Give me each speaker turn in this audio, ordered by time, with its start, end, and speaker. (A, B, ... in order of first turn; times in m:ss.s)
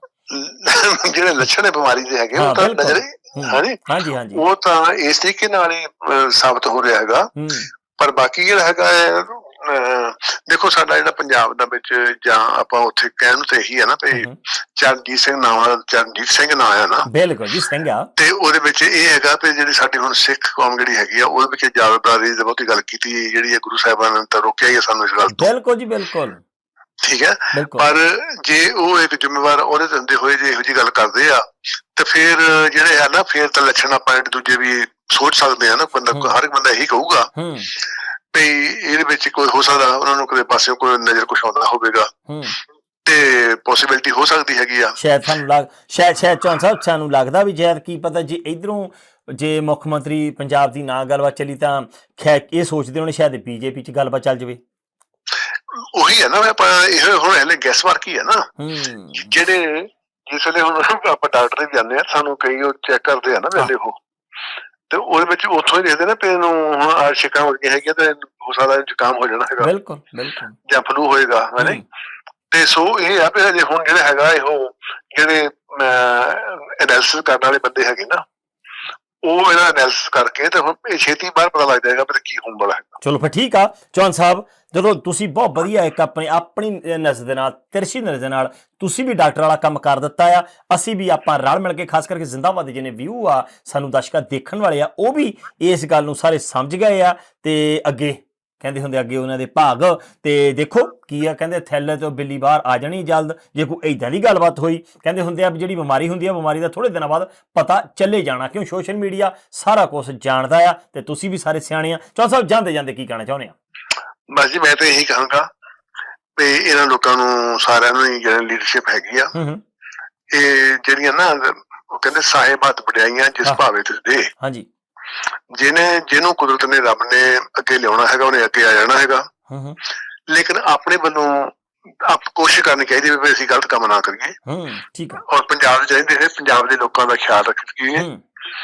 0:00.3-0:03.8 A
0:02.3-0:04.4 B
0:04.3-0:07.3 A
0:07.4-0:07.7 B
0:08.0-0:17.1 A
0:17.0-0:18.1 B
0:18.2-0:25.5 A
0:25.3-0:26.4 B
0:27.0-0:37.3 A
0:27.5-0:27.9 B
0:37.4-0:37.7 B
0:38.3-0:42.1 A
0:42.3-0:42.6 B
0:43.0-0:45.0 A
0:45.0-0:54.6 B
0:55.7-0:58.5 A
0:58.6-0:59.4 B
0:59.2-1:04.0 A
1:04.9-1:09.7 A
1:09.6-1:10.5 B
1:10.7-1:11.8 A
1:12.5-1:18.2 A
1:19.2-1:22.9 A
1:23.0-1:53.5 B
1:54.3-1:55.5 A
1:56.4-1:59.3 A
1:59.3-1:59.6 B
2:00.3-2:04.3 A
2:04.4-2:04.7 B
2:05.5-2:09.3 A
2:09.5-2:09.8 B
2:10.3-2:14.4 A
2:14.5-2:15.2 B
2:15.2-2:18.1 A
2:17.9-2:18.2 B